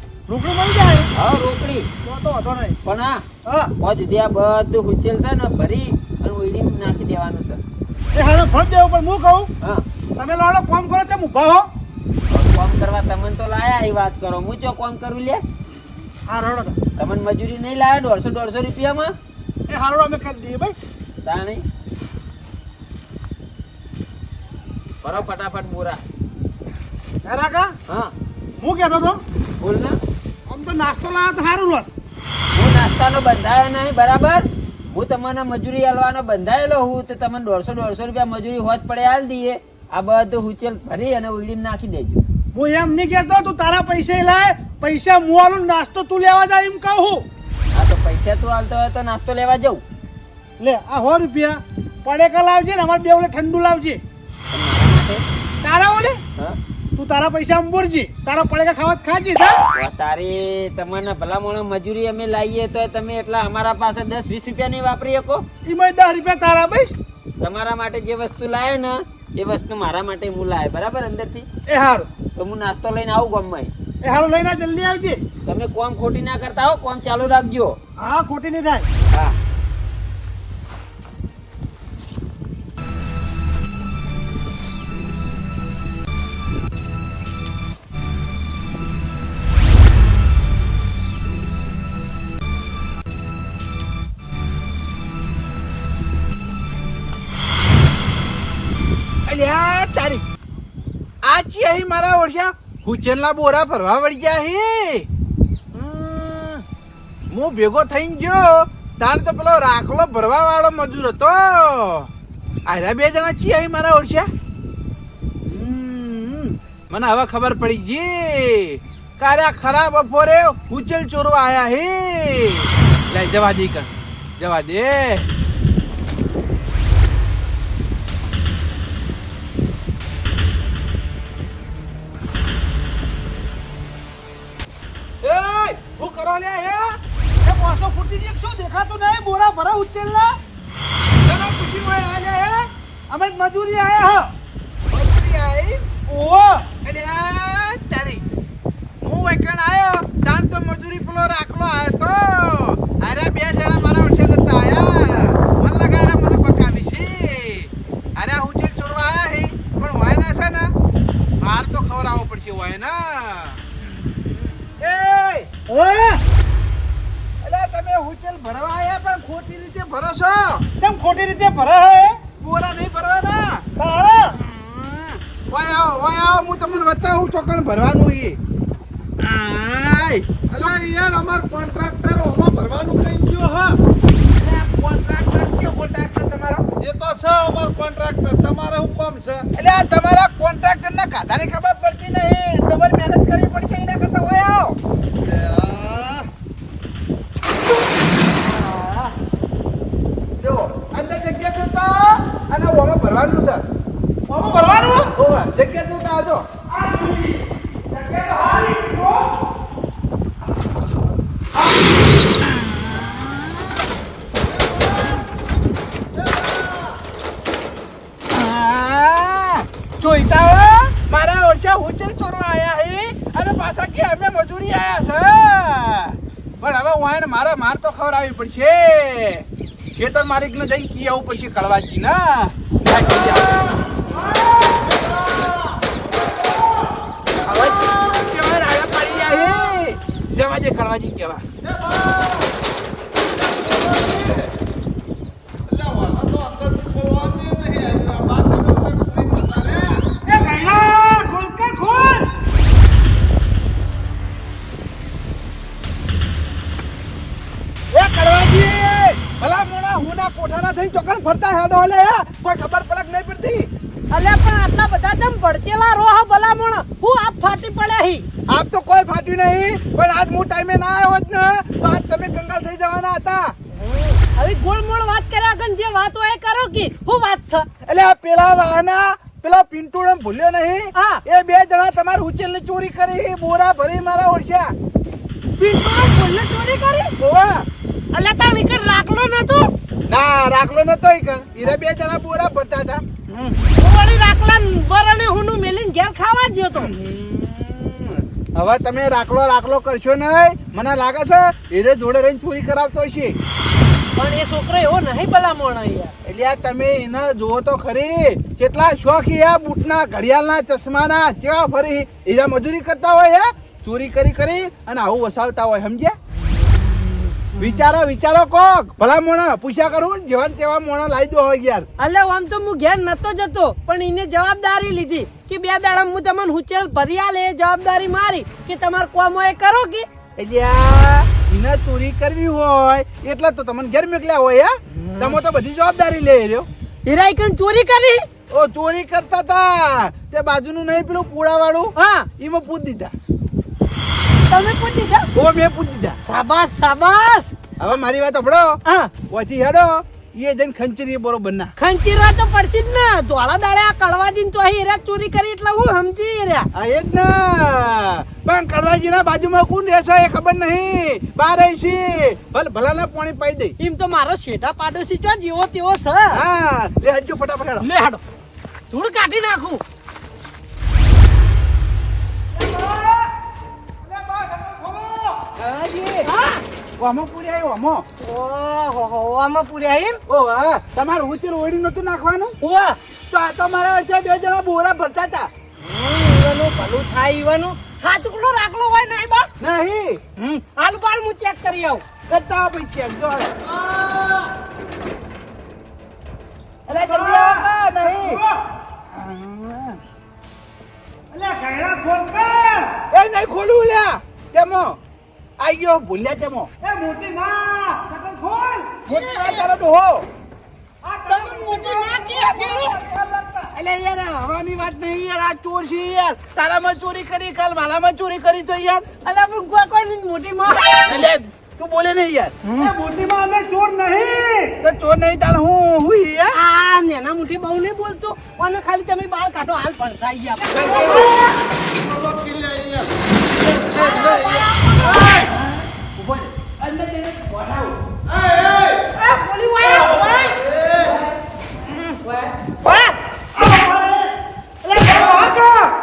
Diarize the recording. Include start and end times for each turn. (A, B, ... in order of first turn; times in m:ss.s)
0:00.3-0:01.1 A
0:01.1-0:01.9 B
0:02.0-0:02.8 A
0:02.8-0:03.2 B
0:03.4-0:03.7 A
0:03.8-0:07.6 B
0:08.1-0:09.5 A
0:10.2-0:11.7 A
0:12.3-0:15.4 B
0:16.3-0:16.8 A
0:17.0-0:19.1 B
0:19.7-0:20.7 A
0:21.2-0:21.6 B
0:25.0-0:26.0 B
0:27.2-0:27.7 A
0:27.9-0:28.1 B
0:28.6-0:29.2 A
0:29.6-0:30.0 B
0:30.5-0:31.9 A
0:32.5-0:42.2 B
0:42.5-0:47.2 A
0:47.7-0:49.8 B
0:50.6-0:54.0 A
0:54.5-0:55.2 B
0:55.6-0:56.2 A
0:57.0-0:59.6 A
0:59.7-1:05.4 B
1:05.6-1:06.9 A
1:07.4-1:11.5 B
1:11.7-1:12.1 A
1:12.3-1:13.7 B
1:14.0-1:15.2 A
1:15.4-1:17.8 B
1:18.0-1:18.8 A
1:39.2-1:40.2 C
1:41.2-1:45.1 C
1:45.7-1:46.6 C
1:47.3-1:52.1 C
1:52.6-1:54.3 C
1:55.5-2:05.3 C
2:15.2-2:17.0 C
2:17.4-2:20.4 A
2:21.2-2:22.7 C
2:23.1-2:24.3 A
2:24.9-2:25.8 C
2:26.1-2:26.6 A
2:26.8-2:28.3 C
2:29.0-2:40.7 C
2:41.4-2:43.6 C
2:44.8-2:45.5 C
2:45.7-2:46.2 A
2:47.4-2:50.6 C
2:50.8-2:52.2 A
2:52.4-2:53.6 C
2:53.8-2:54.3 A
2:54.4-2:58.4 C
2:59.2-3:00.3 C
3:00.5-3:03.8 D
3:04.2-3:06.6 C
3:06.8-3:09.5 D
3:09.5-3:14.8 C
3:15.2-3:16.3 D
3:17.5-3:19.1 C
3:20.4-3:23.6 C
3:24.3-3:25.1 A
3:25.1-3:26.5 C
3:26.7-3:29.3 A
3:32.4-3:33.7 C
3:38.3-3:53.5 C
3:57.4-4:01.4 C
4:01.6-4:02.5 D
4:03.2-4:04.5 D
4:05.7-4:10.1 D
4:10.2-4:12.3 A
4:17.9-4:23.7 C
4:24.1-4:28.3 E
4:28.5-4:33.5 C
4:33.7-4:37.7 E
4:37.8-4:44.7 C
4:40.9-4:41.2 E
4:45.6-4:47.1 E
4:47.2-4:47.6 C
4:48.1-4:49.7 E
4:50.1-4:53.5 C
4:53.7-4:56.9 E
4:56.8-5:03.4 C
5:04.2-5:06.1 E
5:06.2-5:16.2 C
5:17.5-5:21.9 C
5:22.0-5:30.1 E
5:30.4-5:36.7 C
5:35.0-5:35.4 E
5:37.0-5:38.3 E
5:38.5-5:43.1 C
5:42.0-5:42.3 E
5:44.5-5:45.3 E
5:45.3-5:46.2 C
5:46.2-5:47.5 E
5:47.8-5:51.7 C
5:48.8-5:49.1 E
5:51.8-5:56.7 E
5:56.7-6:03.7 C
6:03.8-6:06.4 E
6:06.3-6:07.9 C
6:07.8-6:08.2 E
6:08.9-6:09.8 E
6:12.5-6:13.3 A
6:14.0-6:15.4 A
6:15.6-6:16.3 C
6:16.2-6:16.6 E
6:17.0-6:18.0 C
6:18.2-6:20.2 E
6:20.3-6:22.6 C
6:22.6-6:23.0 E
6:23.3-6:25.5 C
6:25.8-6:29.5 E
6:29.6-6:30.2 C
6:30.4-6:32.0 E
6:32.3-6:33.6 C
6:36.9-6:38.4 C
6:36.9-6:38.6 A
6:39.1-6:40.0 C
6:41.3-6:42.9 A
6:43.1-6:45.0 C
6:45.6-6:46.7 C
6:46.8-6:49.0 A
6:49.1-6:50.3 C
6:49.2-6:49.6 E
6:51.0-6:53.7 A
6:51.3-6:53.0 E
6:53.7-6:59.1 C
6:59.2-7:01.2 E
7:01.1-7:02.6 C
7:02.6-7:04.7 A
7:04.8-7:06.6 C
7:06.5-7:11.3 E
7:10.8-7:13.1 D
7:10.9-7:11.3 C
7:13.6-7:15.6 C
7:13.8-7:15.5 E
7:14.0-7:14.6 D
7:16.1-7:18.0 C
7:18.3-7:19.0 D
7:19.1-7:20.6 E
7:22.8-7:23.2 E
7:23.6-7:24.3 A
7:24.8-7:25.6 E
7:25.1-7:25.9 A